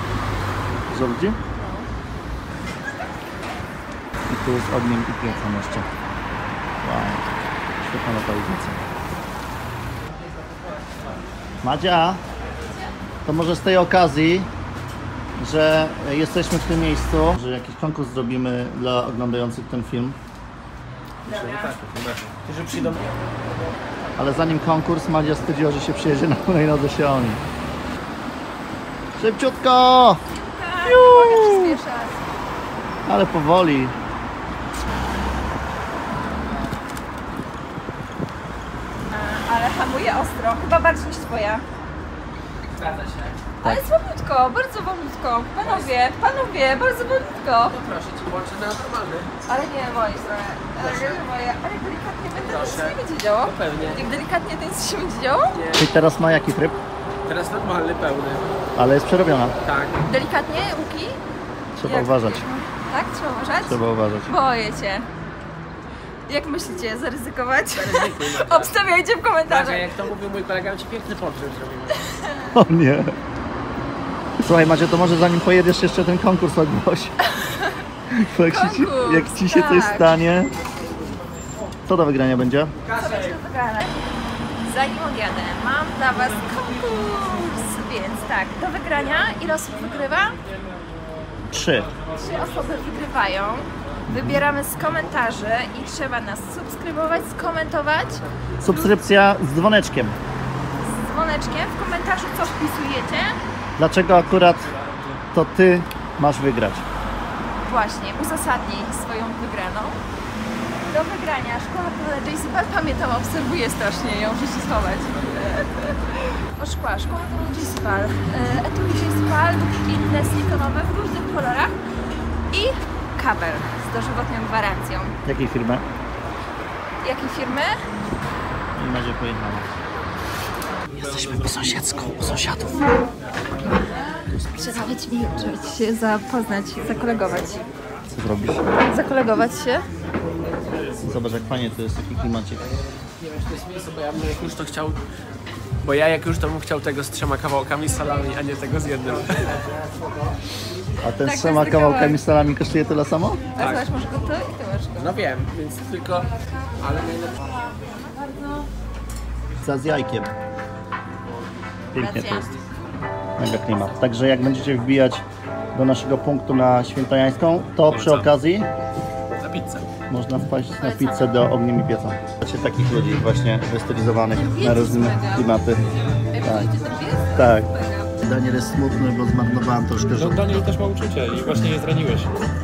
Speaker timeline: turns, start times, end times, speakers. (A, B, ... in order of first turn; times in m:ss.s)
0:00.8-0:01.4 A
0:01.6-0:01.9 B
0:04.3-0:05.9 A
0:06.8-0:07.2 A
0:07.8-0:08.8 A
0:11.6-0:12.2 A
0:13.2-0:14.5 A
0:15.4-0:20.2 A
0:21.2-0:21.8 B
0:21.3-0:21.8 C
0:22.4-0:23.8 C
0:24.2-0:27.5 A
0:29.2-0:30.2 A
0:30.3-0:32.2 B
0:30.8-0:31.8 A
0:33.1-0:34.0 A
0:39.0-0:41.6 B
0:42.7-0:43.4 C
0:43.6-0:47.8 B
0:47.6-0:49.4 C
0:49.5-0:55.6 B
0:50.8-0:51.2 C
0:52.4-0:54.1 C
0:55.5-0:55.9 C
0:55.8-0:56.8 A
0:57.2-0:58.6 C
0:58.8-0:59.6 A
0:59.6-1:00.1 C
1:00.0-1:01.2 B
1:01.8-1:02.4 A
1:01.8-1:05.1 B
1:03.6-1:04.3 A
1:06.3-1:10.0 B
1:07.7-1:08.9 C
1:09.5-1:12.0 C
1:12.1-1:12.5 B
1:12.6-1:13.1 A
1:14.4-1:17.2 A
1:17.3-1:17.8 B
1:18.1-1:20.5 A
1:18.5-1:20.1 B
1:21.9-1:22.7 A
1:22.9-1:24.0 B
1:24.6-1:30.4 B
1:31.5-1:31.9 A
1:32.2-1:39.0 B
1:34.1-1:34.4 A
1:38.6-1:40.2 A
1:40.8-1:43.4 B
1:43.8-1:44.7 A
1:44.8-1:45.2 D
1:45.3-1:46.8 A
1:47.6-1:50.0 B
1:50.8-2:01.8 B
2:02.5-2:05.2 B
2:05.2-2:05.8 A
2:07.0-2:07.7 B
2:08.8-2:09.7 A
2:10.9-2:12.9 A
2:14.3-2:14.9 A
2:14.6-2:17.6 B
2:18.1-2:18.6 A
2:18.8-2:19.9 B
2:21.0-2:22.6 A
2:23.2-2:25.0 C
2:25.8-2:29.6 C
2:31.0-2:33.4 A
2:31.2-2:32.2 B
2:33.6-2:35.1 B
2:33.6-2:33.9 C
2:35.0-2:37.5 C
2:39.6-2:40.3 A
2:41.9-2:42.5 A
2:42.0-2:42.6 B
2:43.4-2:45.2 A
2:45.7-2:48.7 A
2:47.9-2:48.3 D
2:49.4-2:49.9 C
2:50.1-2:55.8 A
2:50.8-2:51.4 B
2:54.4-2:55.5 B
2:56.3-2:58.2 B
2:56.4-2:56.7 A
2:57.4-2:57.7 A
2:58.2-3:00.6 A
3:00.2-3:02.4 D